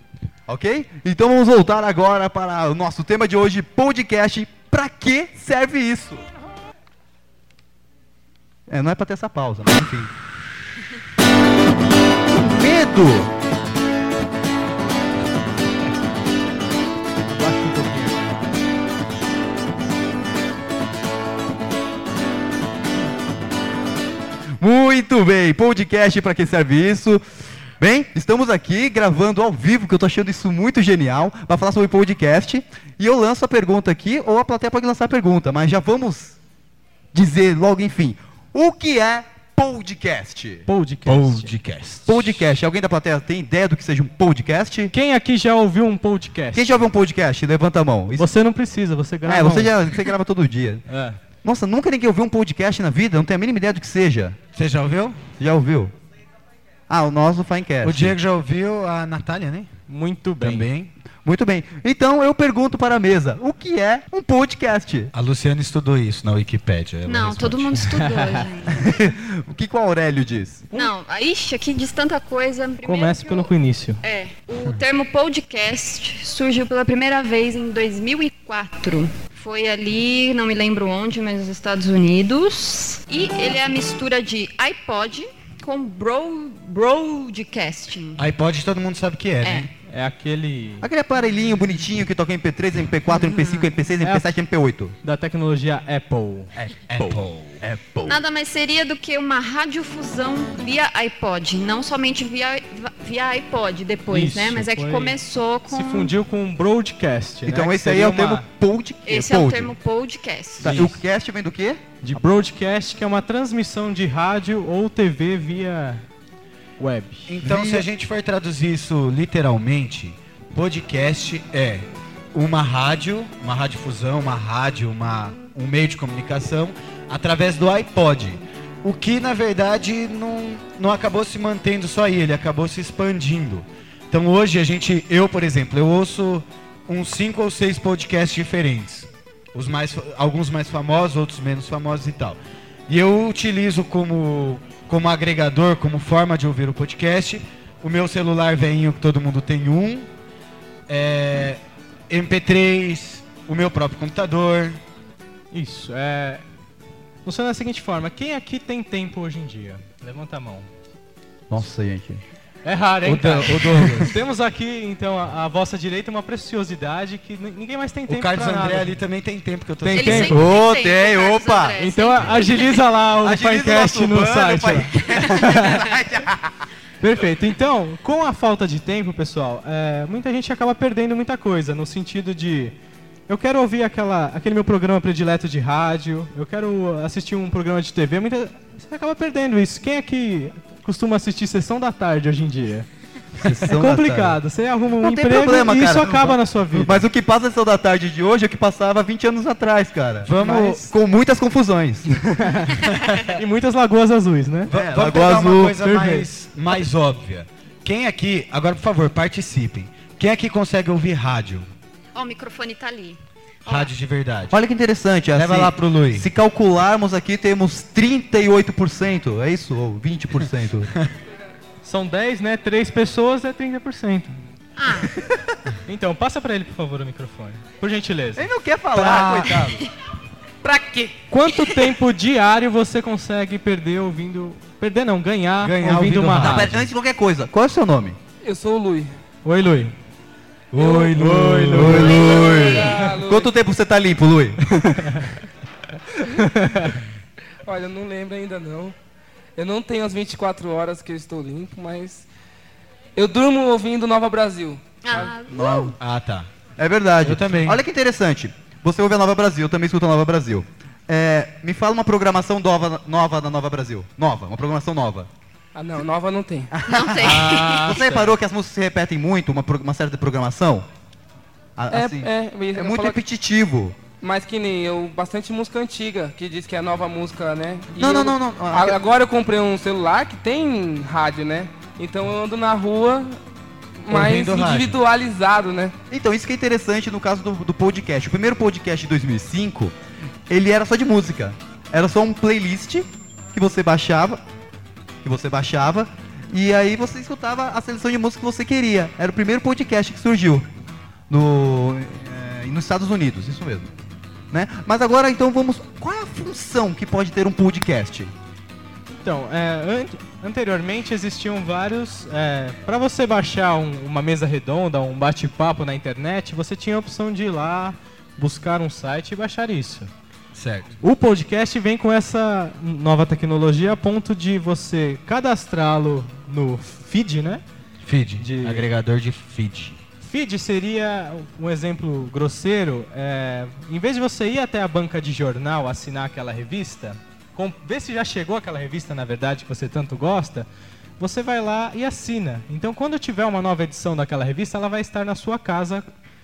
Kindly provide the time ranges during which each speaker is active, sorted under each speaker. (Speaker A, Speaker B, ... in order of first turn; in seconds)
Speaker A: 0.5-6.2, 8.7-10.1, 12.3-13.3, 24.6-27.2, 27.8-36.4, 37.1-40.7, 42.1-44.9, 46.5-48.3, 49.2-50.9, 51.4-54.4, 55.4-55.9, 56.9-58.2, 61.2-65.1, 68.7-70.7, 90.8-94.9, 96.6-98.2, 107.4-109.8, 110.6-111.8, 117.4-117.9, 161.5-162.2, 163.0-164.1, 169.9-172.0, 173.2-176.6, 193.3-194.4, 195.0-202.7, 204.7-205.8, 214.5-220.9, 228.3-229.8, 236.4-238.2, 241.7-245.1, 255.5-256.0, 256.8-265.3, 266.7-270.9, 271.8-274.0, 278.0-279.0, 286.1-289.9, 290.5-294.4, 295.2-300.7, 301.3-303.9, 304.5-308.3
Speaker B: 17.3-18.4, 40.7-41.5, 44.9-46.8, 48.2-49.9, 50.9-51.2, 59.9-60.7, 67.9-68.5, 72.8-74.0, 89.8-90.9, 94.0-94.4, 95.0-96.5, 104.1-108.5, 110.6-111.0, 112.0-116.0, 116.8-117.3, 155.5-156.4, 157.2-160.7, 162.6-169.0, 171.8-175.8, 177.0-182.8, 183.3-192.9, 193.6-197.1, 202.4-202.8, 203.3-204.7, 205.8-206.3, 221.8-224.4, 225.8-228.5, 231.3-236.8, 239.4-239.9, 241.1-242.1, 246.3-247.0, 267.4-268.3, 309.1-320.1, 321.0-327.6, 328.4-328.9, 330.2-340.7, 341.2-346.1
Speaker C: 41.1-42.4, 54.5-55.3, 57.8-59.7, 60.4-60.9, 65.1-68.0, 88.2-89.7, 96.9-98.1, 117.3-150.1, 150.9-151.6, 152.1-154.8, 163.2-164.1, 168.1-170.4, 200.2-200.9, 204.7-211.7, 213.7-214.6, 215.3-216.3, 228.9-229.7, 235.6-236.8, 240.7-242.2, 256.0-256.5, 257.2-257.8, 284.1-285.0, 320.5-320.9, 328.0-330.0
Speaker D: 67.1-69.0, 70.7-73.5, 74.0-88.2, 89.4-89.7, 93.3-93.6, 98.1-106.1, 109.1-110.8, 169.9-172.8, 174.9-175.8, 212.2-213.9, 224.8-225.1, 255.0-256.0, 266.8-268.0
Speaker E: 238.4-239.1, 240.8-241.2, 241.9-243.5, 247.7-248.9, 249.6-252.2, 253.2-255.3, 265.8-266.7, 271.9-273.2, 274.2-283.4, 284.0-285.9